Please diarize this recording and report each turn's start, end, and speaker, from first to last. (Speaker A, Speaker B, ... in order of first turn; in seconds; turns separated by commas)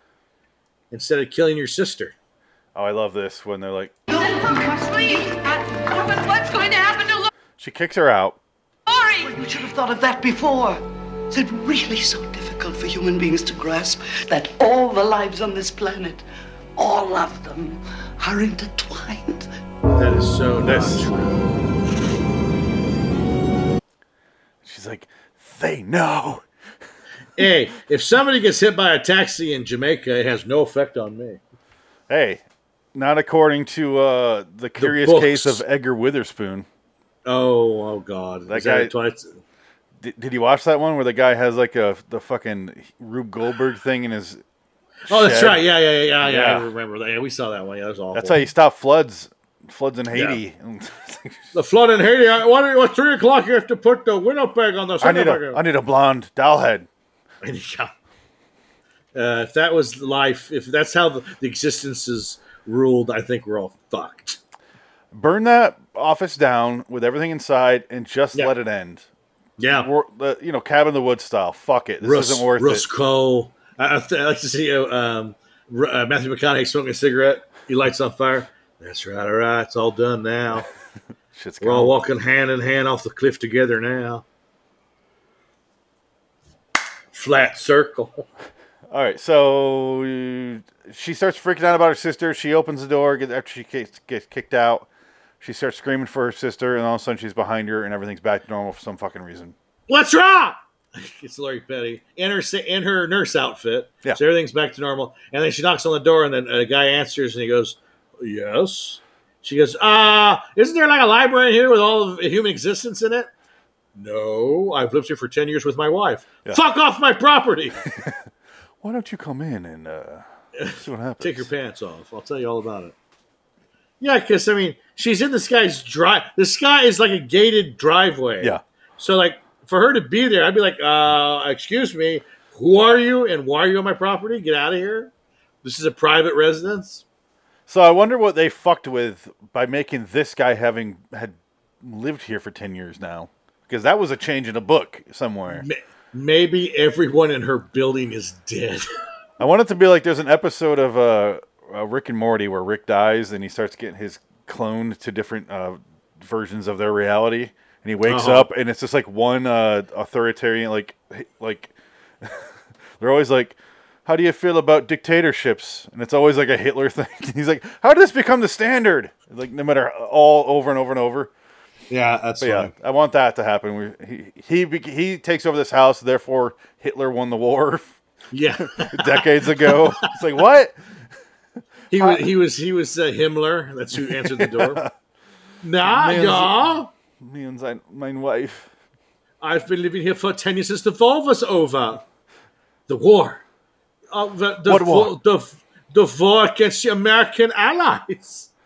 Speaker A: 0.9-2.1, Speaker B: 2.8-3.9, Speaker C: 4.1-5.4, Speaker D: 4.2-7.3, Speaker B: 7.6-8.4, Speaker D: 8.9-9.3, Speaker C: 9.2-16.2, Speaker C: 16.8-19.5, Speaker A: 20.0-21.5, Speaker B: 20.6-21.1, Speaker B: 24.6-26.5, Speaker A: 27.4-31.4, Speaker B: 32.1-32.4, Speaker B: 32.9-36.7, Speaker A: 34.8-35.6, Speaker A: 37.2-39.4, Speaker B: 38.5-38.9, Speaker B: 40.0-44.4, Speaker B: 45.1-45.6, Speaker A: 45.1-48.4, Speaker B: 46.2-46.7, Speaker B: 48.1-51.5, Speaker A: 50.1-50.4, Speaker A: 51.5-55.6, Speaker B: 55.0-56.9, Speaker A: 57.4-57.9, Speaker A: 59.1-64.4, Speaker B: 65.1-69.1, Speaker A: 69.6-69.9, Speaker B: 69.7-72.8, Speaker A: 72.0-80.7, Speaker B: 81.3-82.0, Speaker A: 81.6-84.2, Speaker A: 87.1-88.3, Speaker B: 88.9-94.9, Speaker B: 95.4-99.5, Speaker A: 99.9-113.3, Speaker A: 114.0-117.8, Speaker B: 117.9-118.2, Speaker B: 118.8-121.5, Speaker A: 120.6-123.0, Speaker A: 124.0-135.1, Speaker A: 135.6-137.0, Speaker B: 137.7-145.7, Speaker A: 145.5-148.9, Speaker B: 149.4-171.3, Speaker A: 158.1-158.5, Speaker A: 171.9-172.7, Speaker B: 172.4-178.0, Speaker A: 178.3-180.1, Speaker B: 178.6-180.8, Speaker A: 181.9-184.8, Speaker B: 181.9-182.3, Speaker B: 183.9-184.9, Speaker A: 185.6-186.9, Speaker B: 185.8-188.7, Speaker A: 189.4-192.0, Speaker A: 192.9-193.4, Speaker A: 194.1-198.5, Speaker B: 194.7-195.1